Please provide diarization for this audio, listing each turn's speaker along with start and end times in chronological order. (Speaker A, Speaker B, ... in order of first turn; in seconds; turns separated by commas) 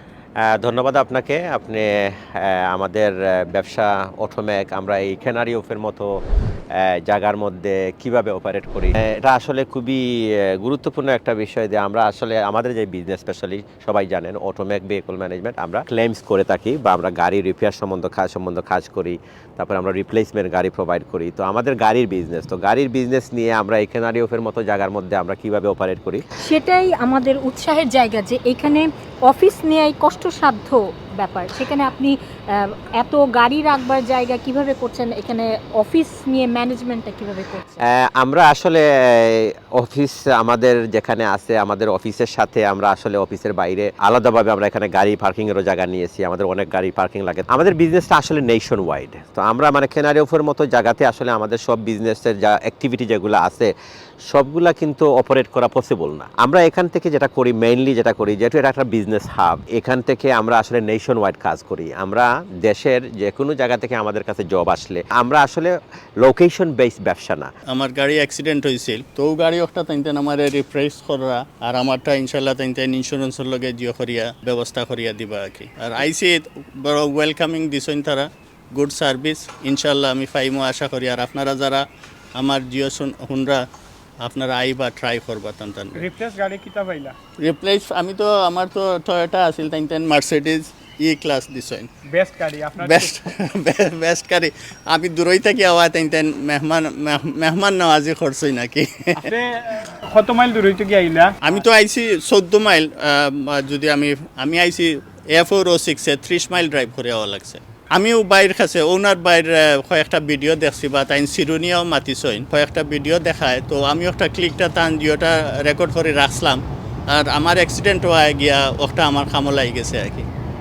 Speaker A: 0.4-6.2, Speaker A: 6.8-26.2, Speaker B: 26.4-37.8, Speaker A: 37.8-53.7, Speaker A: 54.3-67.5, Speaker C: 67.7-83.7, Speaker C: 84.2-86.0, Speaker D: 86.0-87.2, Speaker C: 87.4-91.9, Speaker D: 92.1-93.1, Speaker C: 92.8-99.3, Speaker D: 99.2-101.6, Speaker C: 101.4-120.3